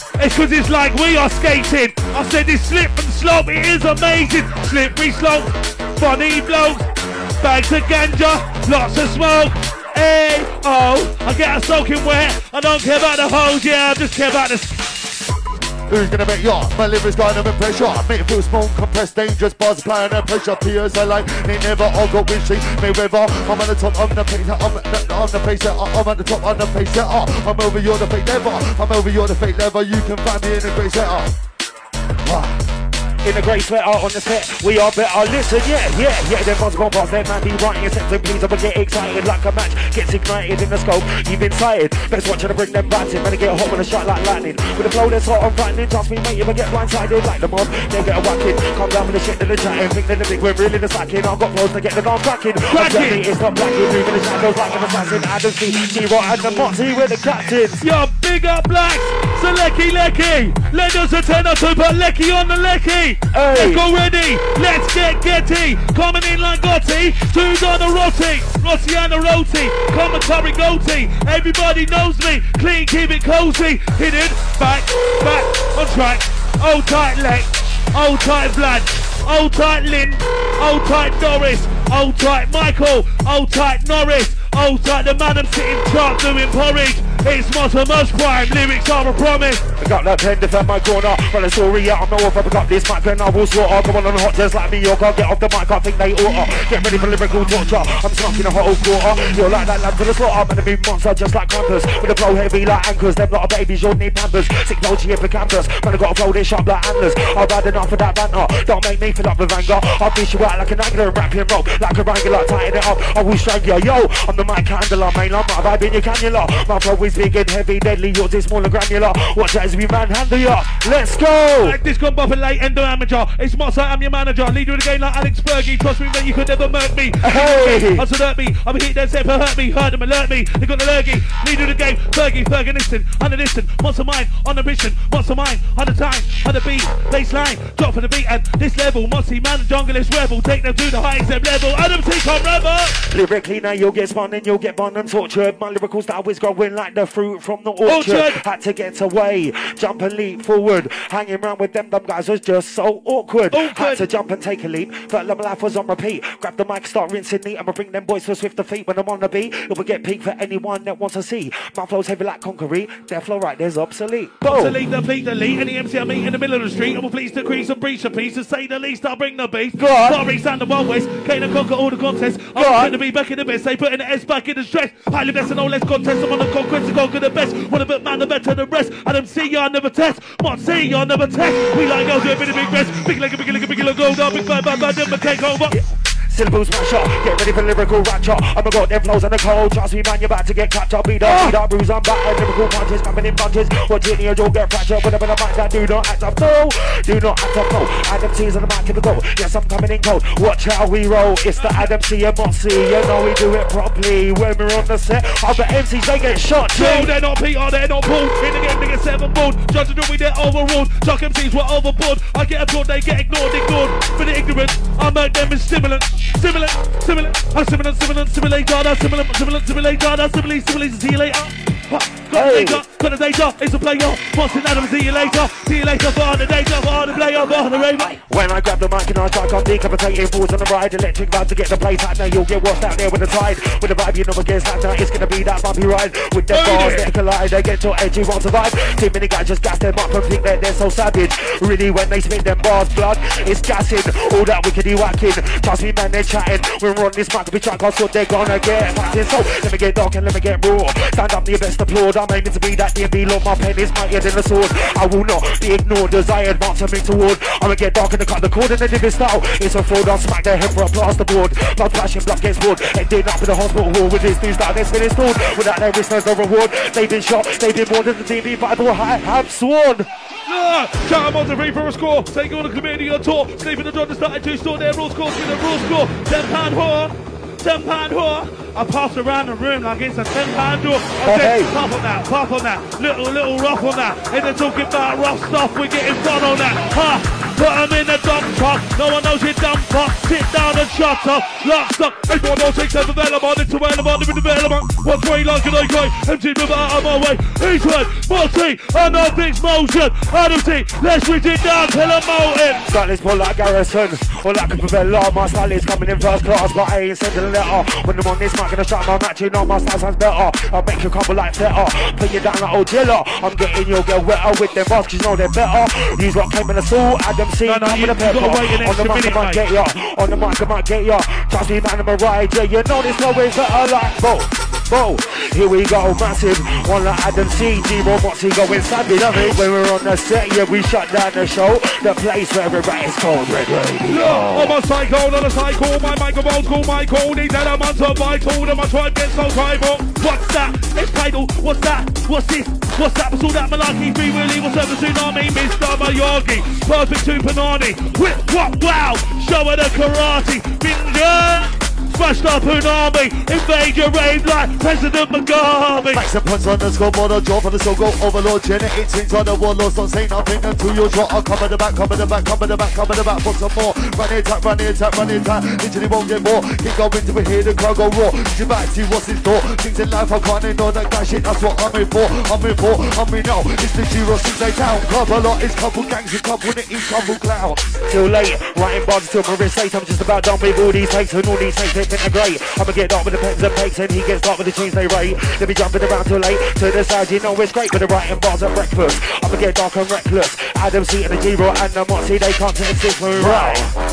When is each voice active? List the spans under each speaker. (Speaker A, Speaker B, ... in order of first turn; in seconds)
Speaker A: 0.2-6.9, 7.4-14.9, 52.7-53.2, 57.8-89.7, 121.6-143.0, 147.8-148.4, 153.5-154.1, 164.4-185.8, 191.2-191.6, 201.6-201.9, 206.7-228.2, 236.5-237.1, 270.5-302.9, 317.6-319.6, 334.1-356.2
Speaker B: 15.9-31.4, 32.2-32.6, 329.1-329.6, 356.1-377.9, 393.3-393.9
Speaker C: 33.2-57.9, 63.3-63.9, 89.8-121.8, 127.2-128.1, 143.1-164.8, 169.8-170.2, 172.6-172.9, 185.7-207.1, 222.3-222.8, 228.2-270.1, 281.2-281.7, 302.9-334.8, 378.0-393.9